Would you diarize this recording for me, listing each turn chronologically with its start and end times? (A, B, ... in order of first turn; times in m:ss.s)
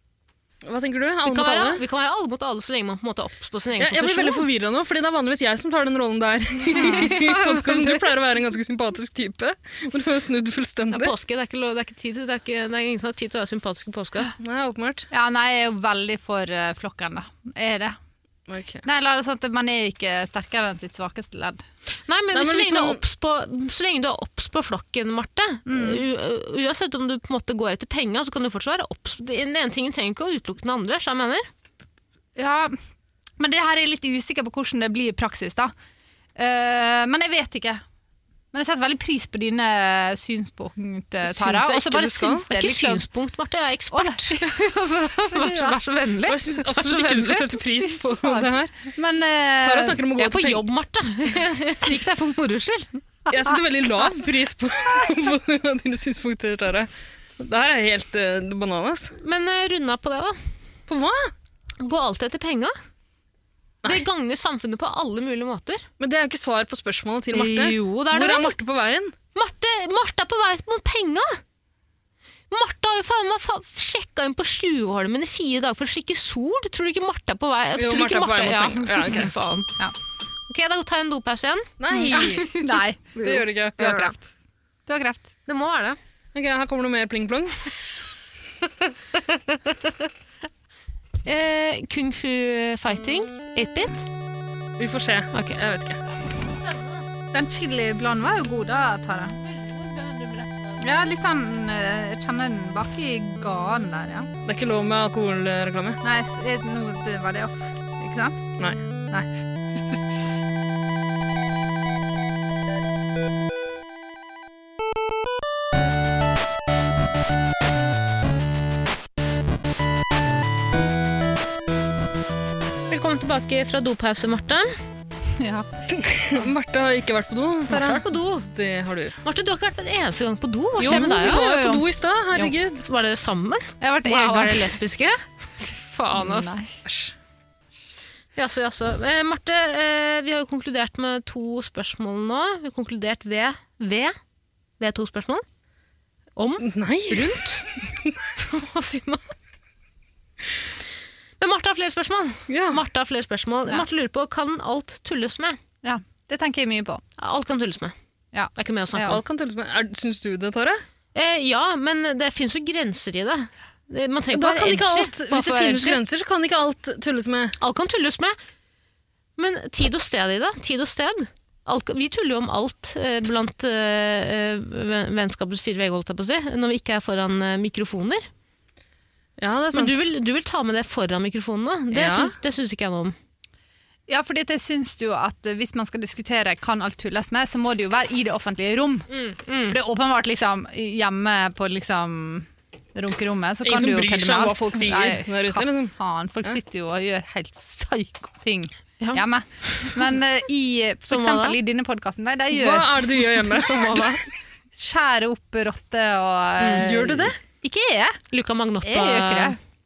0:00.6-0:01.8 A
0:01.2-0:04.4 B
0:03.8-0:11.1 A
0:06.7-0:08.0 B
0:06.8-0:07.1 C
0:10.9-0:14.3 B
0:14.4-0:15.1 A
0:15.1-0:18.0 C
0:18.5-0:18.8 A
0:18.8-0:21.6 C
0:22.1-0:31.5 B
0:22.3-0:23.0 A
0:25.7-0:26.0 C
0:32.4-0:32.8 C
0:33.4-0:35.7 C
0:36.4-0:37.8 C
0:38.5-0:43.0 C
0:41.2-0:42.5 A
0:42.5-0:47.6 B
0:43.9-0:44.7 C
0:45.3-0:45.8 C
0:46.3-0:48.9 A
0:48.2-0:50.0 C
0:49.6-0:50.6 A
0:50.2-0:52.9 B
0:53.3-0:59.2 A
0:59.2-1:00.4 B
1:00.9-1:01.3 A
1:01.8-1:02.7 B
1:03.8-1:05.9 B
1:06.0-1:09.2 A
1:07.3-1:08.6 B
1:09.3-1:11.4 B
1:12.5-1:19.8 B
1:17.8-1:19.3 A
1:20.5-1:22.6 B
1:21.8-1:22.6 A
1:22.1-1:24.1 C
1:23.2-1:24.1 A
1:23.8-1:24.1 B
1:24.9-1:25.3 C
1:25.5-1:26.0 B
1:26.3-1:27.7 A
1:31.2-1:34.0 B
1:34.8-1:36.0 A
1:36.5-1:37.0 B
1:37.3-1:39.4 C
1:39.4-1:40.8 B
1:40.8-1:44.3 C
1:44.4-1:46.0 A
1:46.0-1:48.5 C
2:02.9-2:04.7 B
2:05.4-2:05.9 C
2:05.9-2:09.2 A
2:07.7-2:08.5 B
2:09.2-2:11.5 B
2:10.8-2:11.8 C
2:10.8-2:12.8 A
2:12.8-2:16.6 B
2:13.8-2:14.8 C
2:16.2-2:16.7 C
2:16.8-2:17.1 A
2:18.4-2:24.2 B
2:24.8-2:25.4 B
2:26.4-2:27.7 B
2:26.6-2:28.1 A
2:28.4-2:29.3 B
2:31.4-2:35.6 B
2:32.5-2:32.8 A
2:35.8-2:37.0 C
2:37.2-2:37.9 B
2:38.3-2:39.2 C
2:38.6-2:39.2 B
2:39.0-2:40.8 A
2:41.2-2:46.0 B
2:44.3-2:47.6 A
2:47.6-2:48.4 B
2:49.4-2:58.3 B
2:59.4-3:00.1 A
2:59.7-3:03.2 B
3:01.9-3:02.4 A
3:04.1-3:09.1 C
3:09.1-3:09.8 B
3:09.7-3:23.2 C
3:13.6-3:15.9 A
3:19.0-3:20.0 B
3:21.1-3:21.6 B
3:22.5-3:24.3 A
3:23.5-3:24.2 B
3:24.7-3:28.2 C
3:26.6-3:26.9 B
3:26.8-3:27.4 A
3:28.3-3:29.6 B
3:28.8-3:29.6 C